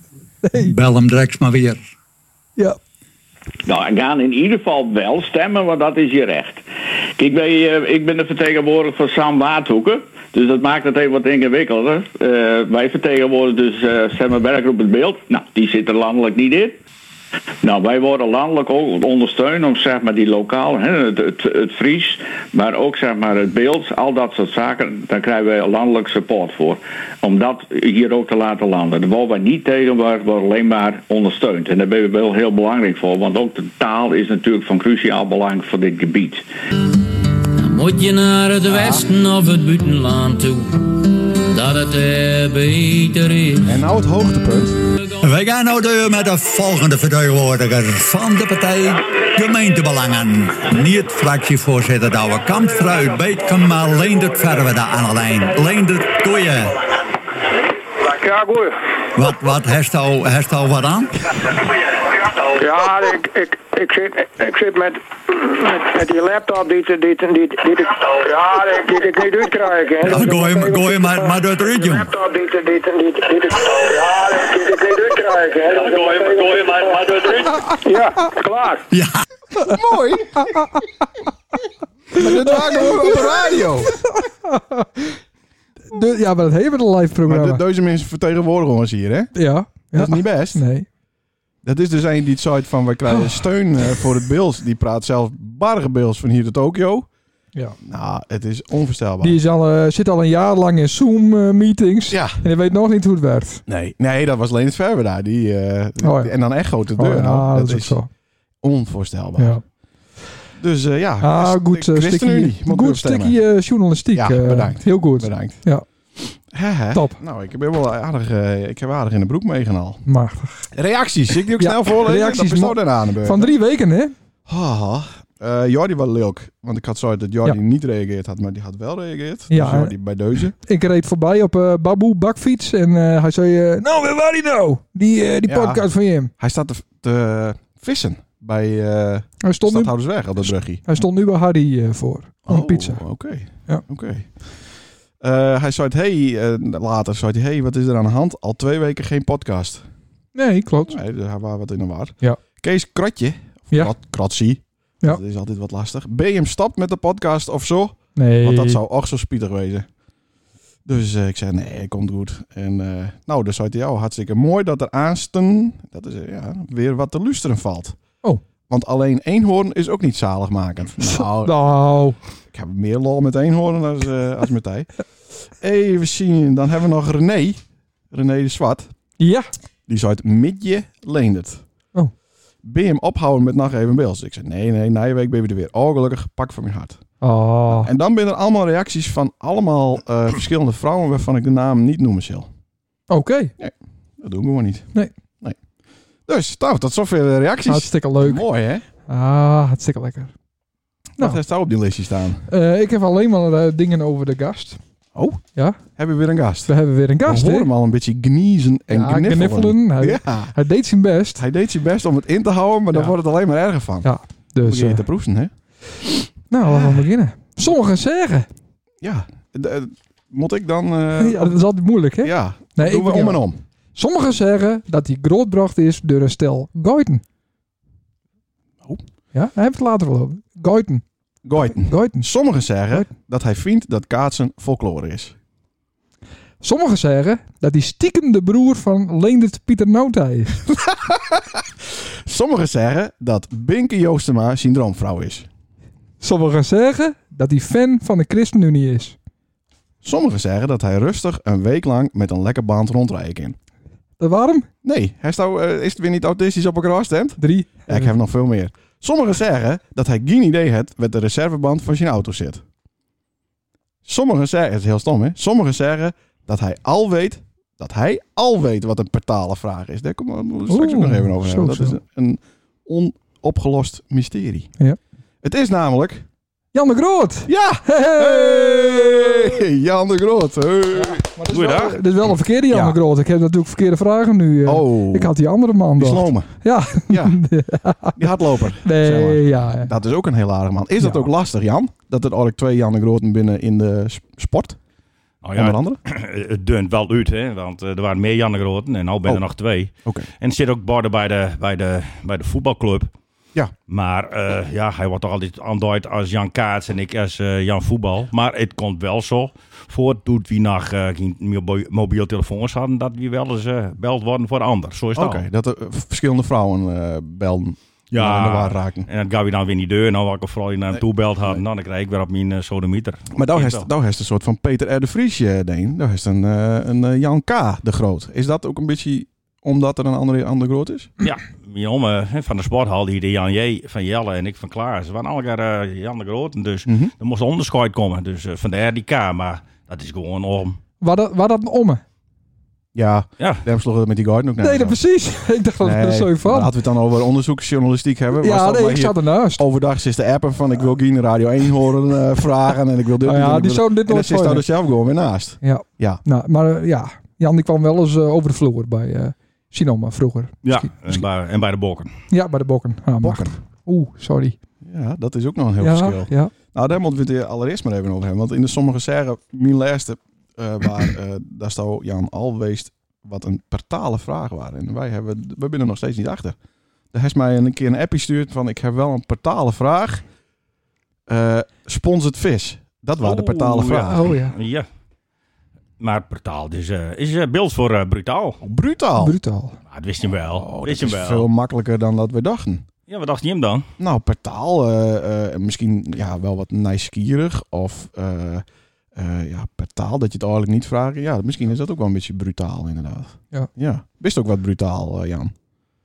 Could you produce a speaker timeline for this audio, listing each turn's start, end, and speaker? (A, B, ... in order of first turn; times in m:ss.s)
0:00.4-0:00.7 A
0:00.6-0:01.8 B
0:03.7-0:06.6 C
0:07.2-0:16.8 C
0:17.6-0:36.4 C
0:37.6-0:43.7 D
0:38.7-0:39.0 E
0:43.6-0:44.8 E
0:45.2-0:56.8 B
0:58.0-0:58.8 F
0:59.2-1:01.2 B
1:02.5-1:18.8 F
1:10.1-1:12.1 B
1:18.9-1:19.2 B
1:19.6-1:20.6 E
1:20.6-1:20.8 A
1:22.2-1:24.0 E
1:22.2-1:25.2 A
1:25.9-1:27.6 A
1:27.3-1:30.6 E
1:29.4-1:30.9 A
1:31.6-1:37.1 E
1:33.1-1:33.4 A
1:37.8-1:39.4 E
1:39.2-1:43.6 A
1:42.1-1:42.4 E
1:43.7-1:48.0 E
1:46.0-1:46.3 A
1:47.0-1:48.1 A
1:48.6-1:49.6 E
1:50.6-1:53.4 E
1:51.2-1:55.8 A
1:54.1-1:55.6 E
1:56.5-2:00.0 E
2:00.1-2:00.7 A
2:00.7-2:03.5 E
2:01.6-2:04.1 A
2:04.5-2:10.5 E
2:09.5-2:10.0 A
2:10.5-2:16.3 A
2:15.5-2:21.0 E
2:19.4-2:23.0 A
2:22.5-2:24.4 E
2:25.2-2:29.8 E
2:30.3-2:31.0 A
2:30.9-2:39.9 E
2:38.2-2:38.8 A
2:40.9-2:48.0 E
2:48.7-2:51.6 E
2:51.1-2:52.2 A
2:52.5-2:54.9 E
2:55.5-2:57.6 E
2:58.1-2:58.9 E
2:59.2-2:59.5 A
2:59.9-3:01.6 E
3:02.6-3:07.0 E
3:07.2-3:07.9 A
3:07.7-3:12.5 E
3:13.1-3:13.5 A
3:13.6-3:14.9 E
3:16.3-3:18.8 E
3:17.7-3:18.4 A
3:19.1-3:20.3 A
3:21.2-3:22.5 E
3:22.5-3:24.8 A
3:25.2-3:26.7 E
3:25.6-3:25.8 A
3:26.7-3:27.7 A
3:27.3-3:30.6 E
3:28.9-3:31.4 A
3:31.4-3:34.1 E
3:34.0-3:35.0 A
3:34.6-3:35.5 E
3:36.2-3:37.0 E
3:36.5-3:38.5 A
3:39.0-3:41.6 E
3:41.2-3:43.4 A
3:42.2-3:43.6 E
3:44.0-3:47.2 A
3:49.3-3:51.0 A
3:51.4-3:55.4 E
3:51.7-3:52.2 A
3:56.6-4:00.6 A
4:00.7-4:01.6 E
4:02.3-4:05.5 E
4:06.2-4:09.2 A
4:10.0-4:13.6 E
4:14.2-4:14.7 A
4:14.8-4:22.6 E
4:17.4-4:18.1 A
4:24.0-4:34.7 E
4:30.7-4:32.0 A
4:35.4-4:36.2 E
4:36.7-4:39.6 A
4:37.5-4:41.3 E
4:41.0-4:48.3 A
4:41.5-4:42.0 G
4:42.7-4:43.0 E
4:44.6-4:45.3 E
4:46.0-4:47.4 E
4:48.2-4:54.8 E
4:48.8-4:49.9 A
4:51.0-4:51.3 A
4:55.4-5:03.1 G
4:55.6-4:56.0 E
5:03.9-5:15.4 G
5:15.2-5:19.1 E
5:18.1-5:23.9 G
5:20.9-5:21.6 E
5:23.3-5:31.1 E
5:31.2-5:40.8 G
5:36.9-5:37.1 E
5:41.0-5:42.0 A
5:43.0-5:45.0 E
5:43.4-5:43.6 G
5:44.6-5:46.7 A
5:45.8-5:56.2 E
5:48.4-5:49.6 A
5:53.2-5:54.6 A
5:55.6-6:01.2 A
6:00.6-6:02.1 G
6:02.3-6:04.6 A
6:03.2-6:03.6 E
6:04.8-6:16.6 E
6:05.8-6:06.5 A
6:17.1-6:20.2 E
6:21.3-6:24.3 E
6:23.2-6:24.9 G
6:24.1-6:24.6 A
6:26.0-6:28.6 G
6:28.6-6:29.4 E
6:29.2-6:29.8 A
6:29.9-6:31.5 G
6:30.5-6:32.8 E
6:33.1-6:33.9 G
6:34.0-6:38.6 E
6:39.2-6:45.5 E